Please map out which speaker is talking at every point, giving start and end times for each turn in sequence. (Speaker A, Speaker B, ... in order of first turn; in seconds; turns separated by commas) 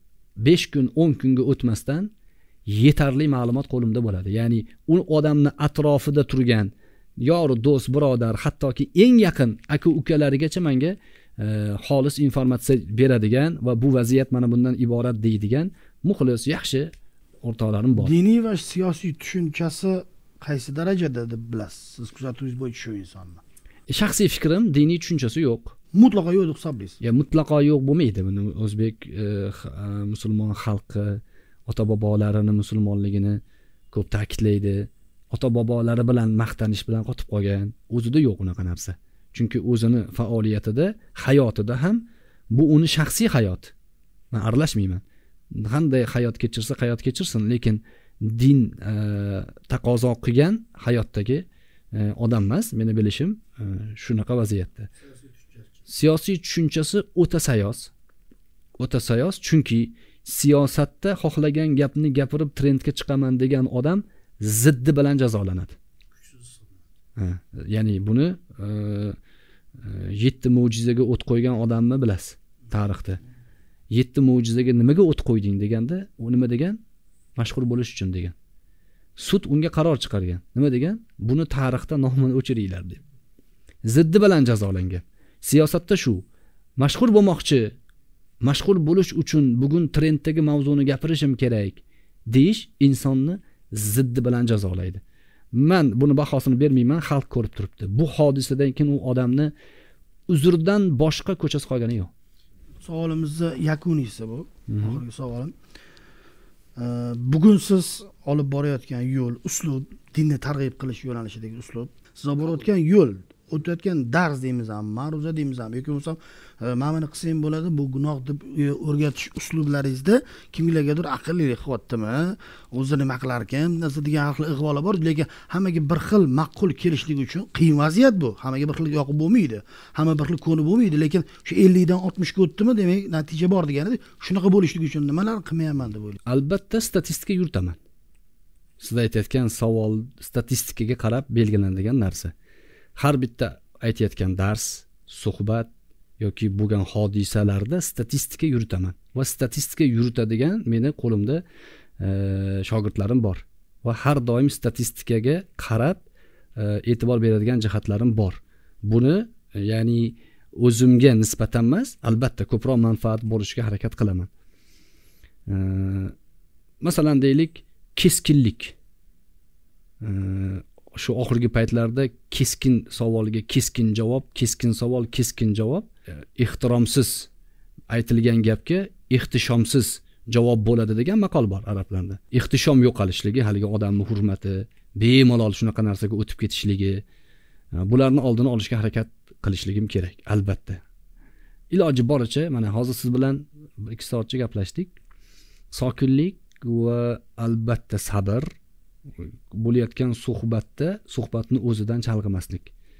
Speaker A: 0.4-2.1, Speaker A: 2.6-18.1, Speaker B: 17.9-23.4, Speaker A: 23.9-25.8, Speaker B: 25.9-27.0, Speaker A: 27.0-33.4, Speaker A: 33.9-43.7, Speaker A: 44.3-54.9, Speaker A: 55.9-57.9, Speaker A: 58.8-65.8, Speaker A: 67.2-69.2, Speaker A: 69.8-73.2, Speaker A: 73.9-76.8, Speaker A: 77.3-78.3, Speaker A: 79.2-83.0, Speaker A: 83.8-86.2, Speaker A: 86.8-87.8, Speaker A: 88.4-95.0, Speaker A: 95.5-99.5, Speaker A: 100.3-102.1, Speaker B: 102.8-105.5, Speaker A: 104.7-105.0, Speaker B: 106.8-136.2, Speaker A: 136.2-137.8, Speaker A: 138.8-142.3, Speaker A: 142.9-151.4, Speaker A: 152.0-156.0, Speaker A: 156.6-164.3, Speaker A: 165.5-166.1, Speaker A: 166.8-168.8, Speaker A: 170.0-177.3, Speaker A: 177.9-187.0, Speaker A: 187.7-190.8, Speaker A: 191.7-194.9, Speaker A: 195.7-198.5, Speaker A: 199.2-202.7